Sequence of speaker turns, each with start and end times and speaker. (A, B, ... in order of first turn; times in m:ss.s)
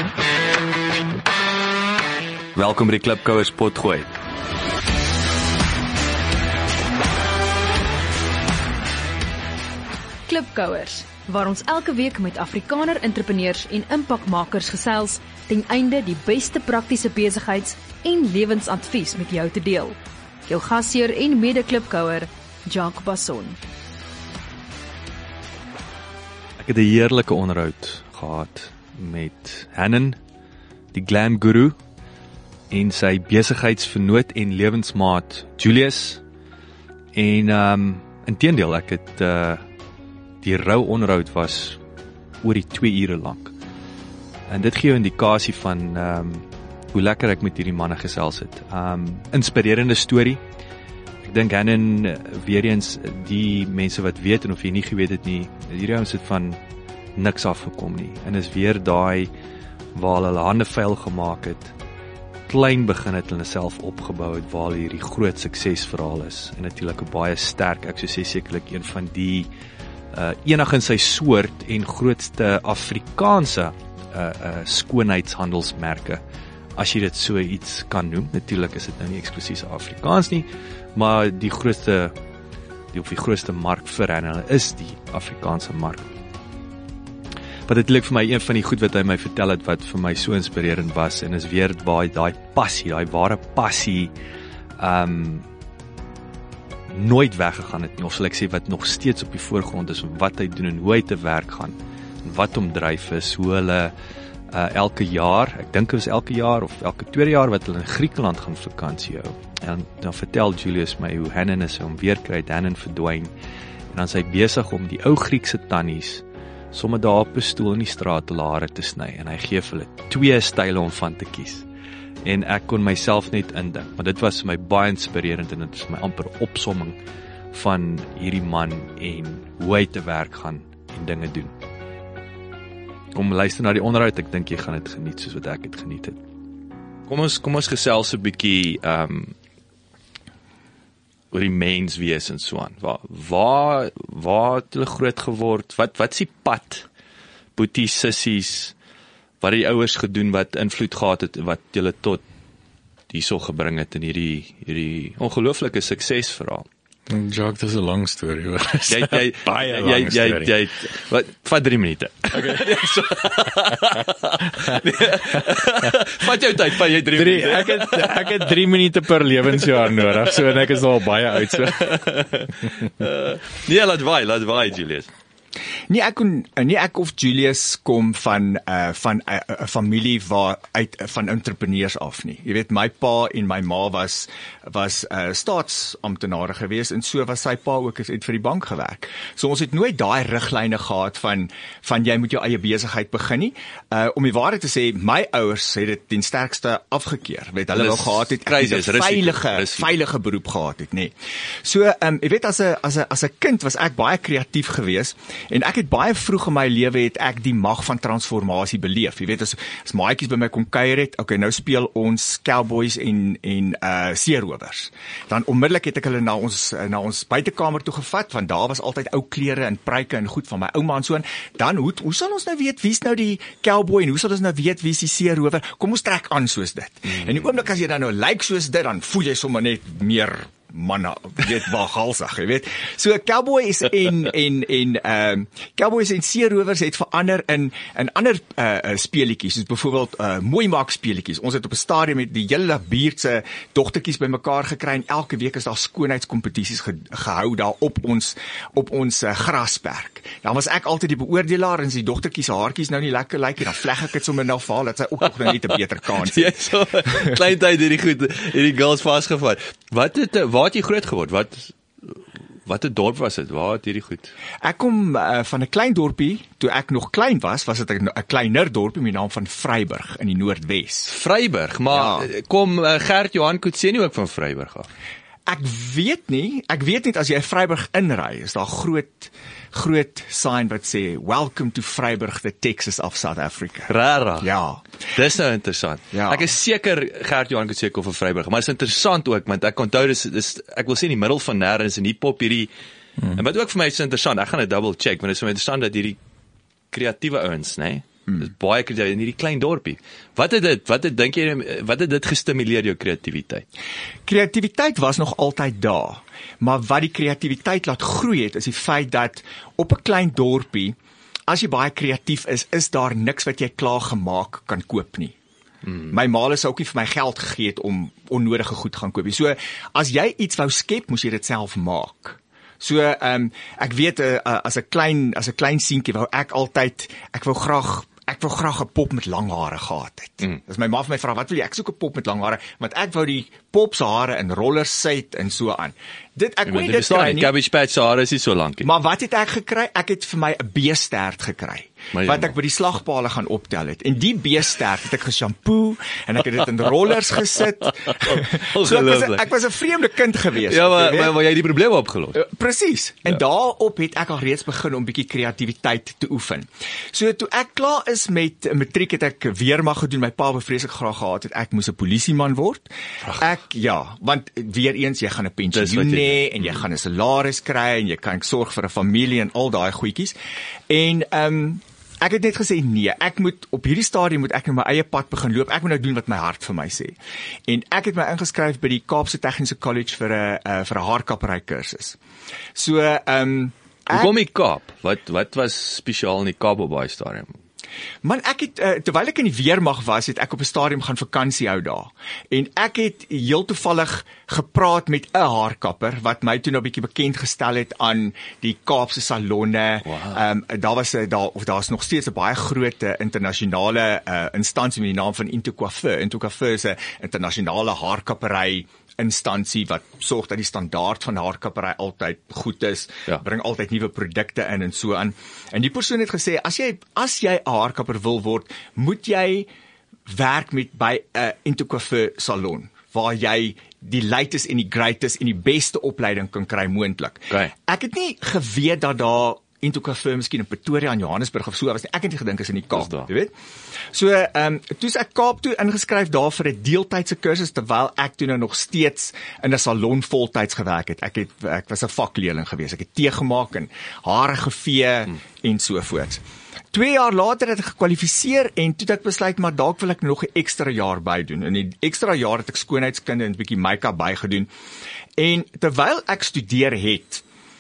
0:02.5-0:04.1 A
0:10.3-0:23.6 B
0:26.6-0:30.2 A
0:30.9-0:31.8 A
0:32.7-0:36.2 A
0:37.1-0:39.6 A
0:40.4-0:41.8 A
0:42.4-0:43.5 A
0:44.5-0:50.4 A
0:51.2-0:56.6 A
0:57.2-0:59.3 A
0:59.9-1:01.7 A
1:02.5-1:09.5 A
1:10.1-1:16.2 A
1:16.8-1:22.2 A
1:22.9-1:26.1 A
1:27.7-1:34.1 A
1:34.8-1:35.5 A
1:36.9-1:43.9 A
1:44.5-1:53.3 A
1:53.9-2:01.7 A
2:02.2-2:07.0 A
2:07.5-2:11.5 A
2:13.1-2:16.2 A
2:17.1-2:19.4 A
2:21.3-2:26.9 A
2:27.6-2:28.7 A
2:29.4-2:32.2 A
2:33.1-2:36.7 A
2:37.1-2:40.5 C
2:38.9-2:48.6 A
2:47.1-2:52.0 C
2:49.7-2:50.6 A
2:51.5-2:55.1 A
2:55.9-4:17.4 D
3:17.7-3:19.9 A
4:16.2-4:24.3 A
4:24.6-4:31.1 D
4:31.1-4:34.9 A
4:31.9-4:32.3 D
4:35.5-4:44.8 D
4:43.9-4:44.5 A
4:45.1-4:52.7 A
4:46.1-4:46.5 D
4:53.3-4:56.2 A
4:56.9-5:03.6 A
5:04.3-5:11.0 D
5:11.5-5:15.4 D
5:16.0-5:37.5 D
5:36.7-5:38.9 A
5:38.8-5:51.4 D
5:42.1-5:42.5 A
5:48.1-5:49.5 A
5:50.7-5:52.4 A
5:52.4-6:10.4 D
6:05.7-6:06.8 A
6:10.9-6:17.2 D
6:17.7-6:22.2 D
6:22.8-6:24.4 D
6:24.1-6:27.6 A
6:28.2-6:59.7 D
6:40.1-6:40.4 A
7:00.3-7:13.5 D
7:13.0-7:13.3 A
7:14.1-7:26.4 D
7:26.9-7:34.7 D
7:35.4-7:37.4 D